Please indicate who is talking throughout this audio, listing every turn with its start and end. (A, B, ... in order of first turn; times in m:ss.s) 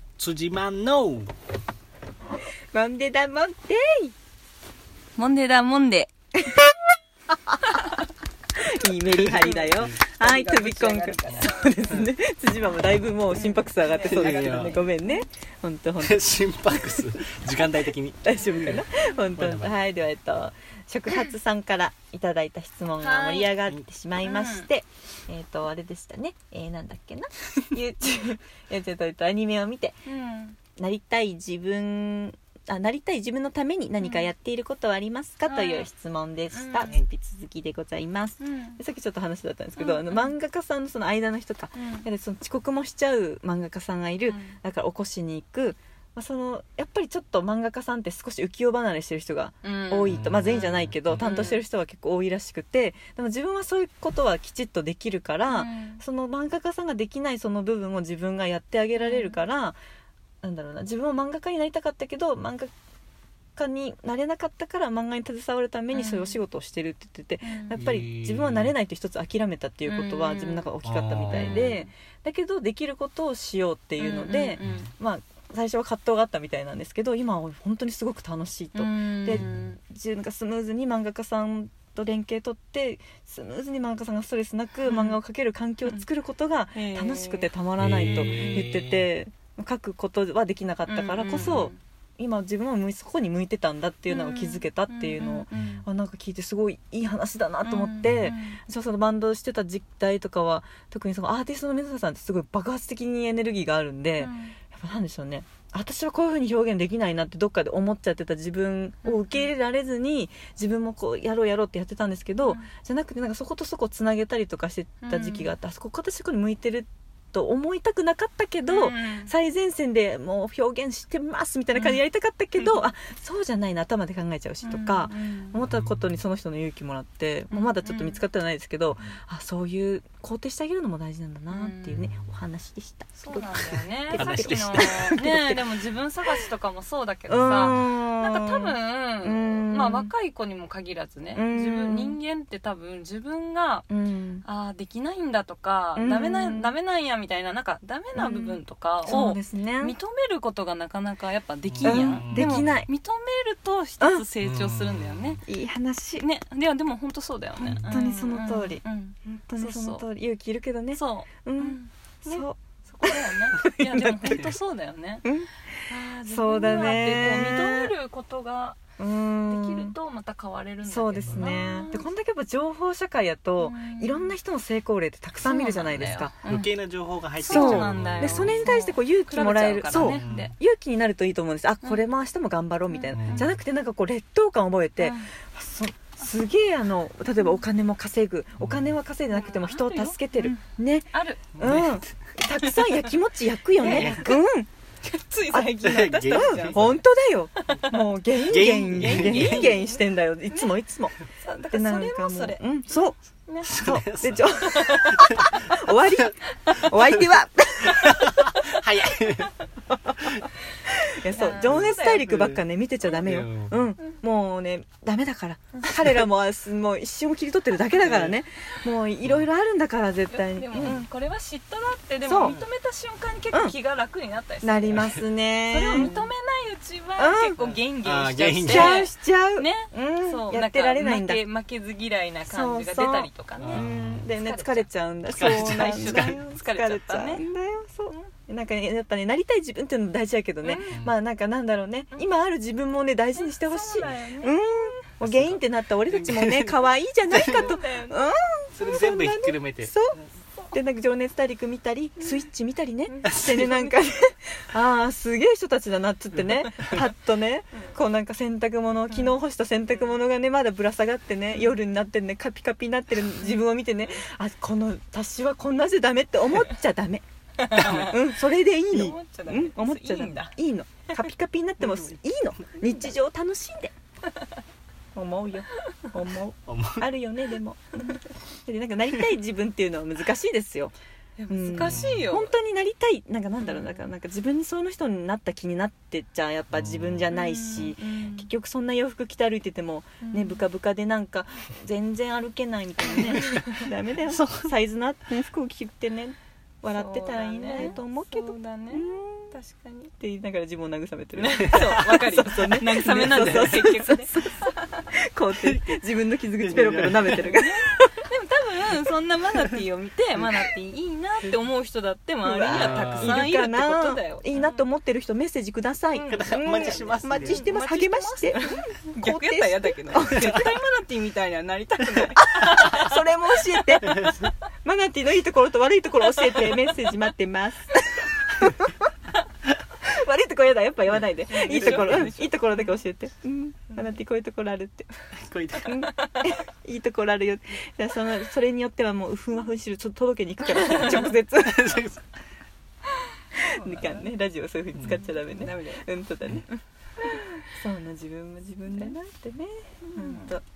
0:00.2-0:01.3 A
0:02.7-0:04.1 B
0:05.2-0:06.1 C
0:08.6-0:17.0 B
0:09.2-0:11.7 C
0:13.3-0:15.2 C
0:14.1-0:14.8 A
0:16.0-0:18.8 A
0:18.2-0:30.0 B
0:19.4-0:19.8 A
0:23.0-0:23.6 C
0:24.2-0:24.7 C
0:30.0-0:30.6 C
0:30.8-0:59.8 B
0:34.0-0:34.3 C
0:35.4-0:35.9 C
0:36.5-0:37.0 C
0:38.4-0:38.8 C
0:39.8-0:40.3 C
0:41.7-0:42.1 C
0:44.3-0:44.6 C
0:49.6-0:51.6 C
0:50.1-0:51.2 A
0:55.5-0:56.0 C
0:59.0-0:59.4 C
1:00.4-1:02.7 B
1:03.6-2:15.6 B
1:05.9-1:06.4 C
1:07.4-1:07.9 C
1:07.7-1:08.7 A
1:09.9-1:10.7 C
1:10.8-1:11.6 A
1:11.3-1:11.9 C
1:14.0-1:14.9 C
1:14.6-1:14.9 A
1:18.7-1:19.8 C
1:24.9-1:25.2 C
1:26.8-1:27.5 C
1:27.8-1:29.1 A
1:28.1-1:28.7 C
1:30.9-1:31.8 C
1:34.1-1:35.9 C
1:37.6-1:38.6 C
1:44.2-1:44.6 C
1:49.0-1:49.5 C
1:55.0-1:55.5 C
1:58.7-1:59.3 C
2:01.8-2:02.0 C
2:02.6-2:02.9 C
2:04.6-2:05.6 C
2:05.6-2:06.0 A
2:07.5-2:08.2 C
2:11.5-2:12.0 C
2:13.2-2:23.9 C
2:14.1-2:15.2 A
2:17.3-2:20.1 B
2:21.3-2:22.2 B
2:23.9-2:24.4 B
2:24.4-2:35.4 C
2:26.0-2:26.7 B
2:28.2-2:30.0 B
2:31.7-2:32.7 A
2:31.8-2:32.9 B
2:34.4-2:35.4 A
2:35.5-2:36.2 B
2:36.2-2:40.0 C
2:37.6-2:44.5 B
2:40.9-2:45.2 C
2:45.2-2:45.5 B
2:45.9-2:48.8 C
2:46.3-2:47.9 B
2:49.0-2:50.0 B
2:49.4-2:52.1 C
2:50.8-2:56.3 B
2:51.2-2:51.7 A
2:53.6-2:54.3 C
2:55.4-2:56.8 C
2:56.5-2:58.6 A
2:57.4-3:00.5 C
2:57.5-3:14.7 B
2:59.9-3:00.5 A
3:02.9-3:03.6 C
3:03.2-3:03.6 A
3:05.0-3:05.3 C
3:09.3-3:10.6 C
3:11.1-3:11.6 C
3:11.6-3:12.0 A
3:12.6-3:13.1 C
3:13.8-3:14.4 C
3:13.8-3:14.3 A
3:15.0-3:17.0 C
3:15.5-3:21.2 B
3:15.8-3:17.0 A
3:17.7-3:18.0 C
3:18.4-3:19.8 A
3:18.9-3:22.6 C
3:21.7-3:28.4 B
3:23.6-3:25.6 A
3:24.6-3:25.2 C
3:27.9-3:29.5 A
3:28.5-3:28.8 C
3:30.8-3:41.0 B
3:31.3-3:32.5 C
3:31.7-3:33.8 A
3:38.0-3:38.4 A
3:40.3-3:53.8 C
3:42.2-3:42.6 B
3:44.6-3:46.1 B
3:47.2-3:47.8 B
3:48.0-3:49.0 A
3:48.6-3:51.4 B
3:52.5-4:10.2 B
3:53.6-3:54.3 A
3:54.4-3:57.4 C
3:55.3-3:56.4 A
4:00.6-4:01.0 C
4:03.4-4:04.9 C
4:05.2-4:06.7 A
4:07.3-4:07.7 A
4:07.3-4:08.2 C
4:08.7-4:09.9 A
4:10.7-4:33.9 B
4:12.2-4:12.4 C
4:13.1-4:13.9 C
4:13.2-4:13.7 A
4:27.6-4:28.3 C
4:27.8-4:28.1 A
4:28.9-4:30.5 C
4:35.2-4:40.9 B
4:36.7-4:37.1 A
4:41.4-4:42.5 C
4:41.5-4:59.6 B
4:41.7-4:42.3 A
4:43.6-4:44.0 C
4:46.7-4:47.2 A
4:47.3-4:48.5 C
4:50.2-4:50.6 C
4:53.4-4:53.8 C
4:54.3-4:54.7 A
4:56.9-5:00.1 C
5:00.2-5:04.6 B
5:01.4-5:05.0 C
5:05.1-5:08.2 B
5:05.6-5:06.0 A
5:06.6-5:07.4 A
5:07.2-5:14.8 C
5:12.4-5:20.7 B
5:12.7-5:13.4 A
5:16.1-5:23.1 C
5:16.3-5:17.6 A
5:22.5-5:29.1 B
5:30.0-5:35.1 B
5:31.5-5:32.9 C
5:31.8-5:32.3 A
5:35.4-5:35.9 A
5:35.8-5:42.0 B
5:41.6-5:42.2 A
5:43.6-5:46.7 B
5:43.6-5:44.3 C
5:45.1-5:46.1 C
5:46.7-5:47.4 C
5:47.2-5:50.6 B
5:48.9-5:49.2 C
5:50.0-5:50.6 C